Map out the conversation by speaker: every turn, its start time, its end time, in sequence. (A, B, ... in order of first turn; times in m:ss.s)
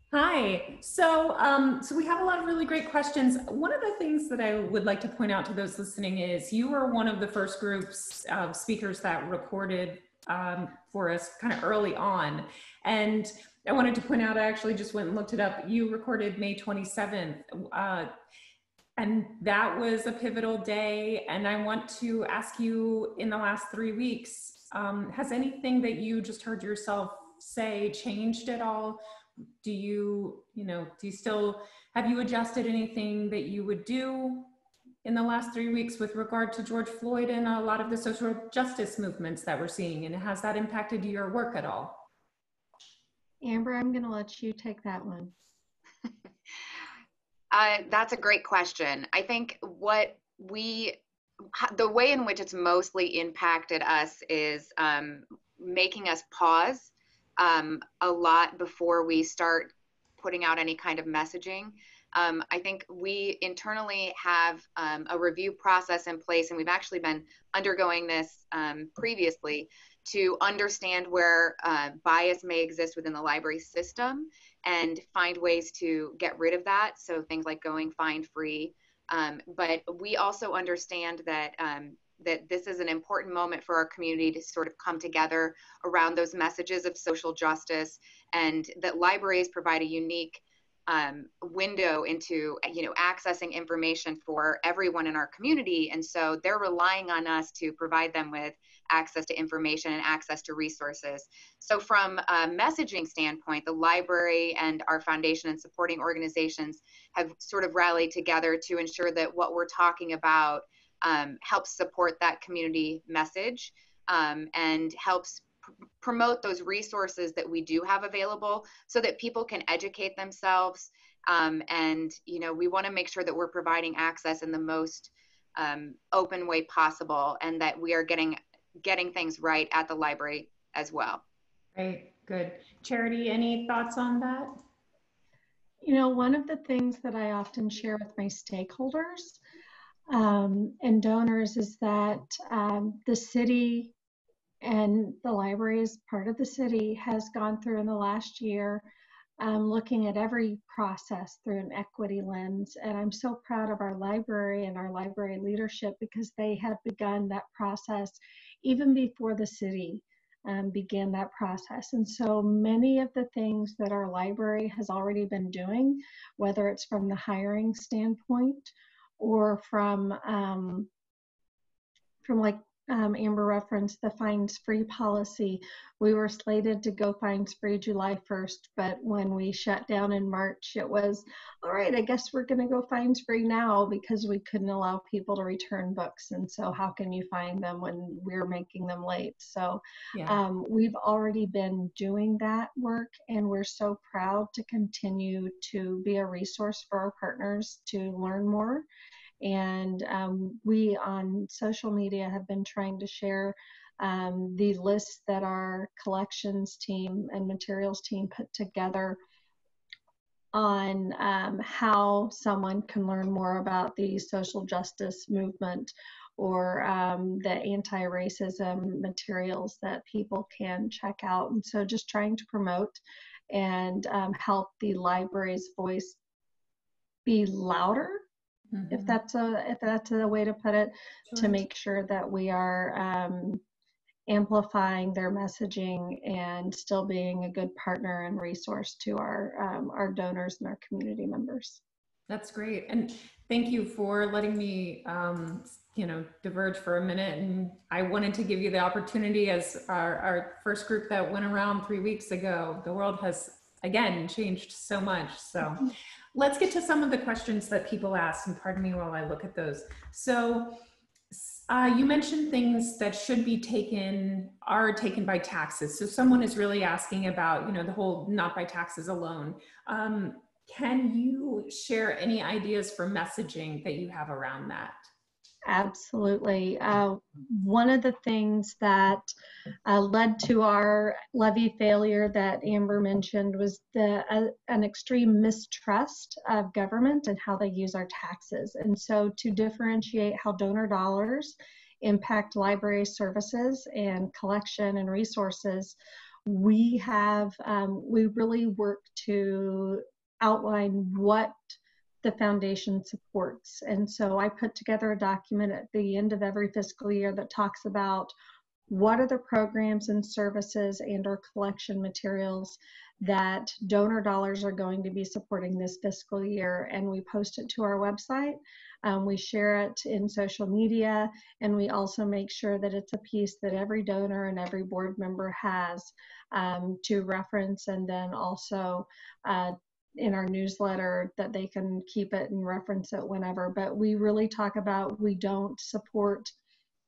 0:00.1-0:18.1 A
0:19.0-0:29.0 A
0:29.6-0:34.5 A
0:35.0-0:42.0 A
0:43.4-0:45.3 B
0:47.5-0:51.0 C
0:51.5-1:55.5 C
1:56.0-2:11.2 C
2:11.8-2:14.6 A
2:15.8-2:19.4 B
2:20.1-2:23.9 B
2:24.6-2:28.9 B
2:29.4-2:50.9 B
2:52.2-3:18.9 B
3:10.1-3:10.4 A
3:19.4-3:29.2 B
3:30.5-3:43.0 B
3:43.5-3:46.2 B
3:47.3-3:48.2 B
3:48.7-3:49.2 A
3:48.9-3:53.6 B
3:51.3-3:51.6 A
3:54.3-4:01.8 B
4:02.3-4:20.8 A
4:21.3-4:35.0 A
4:35.7-4:39.3 B
4:39.9-5:08.3 B
5:08.9-5:36.5 B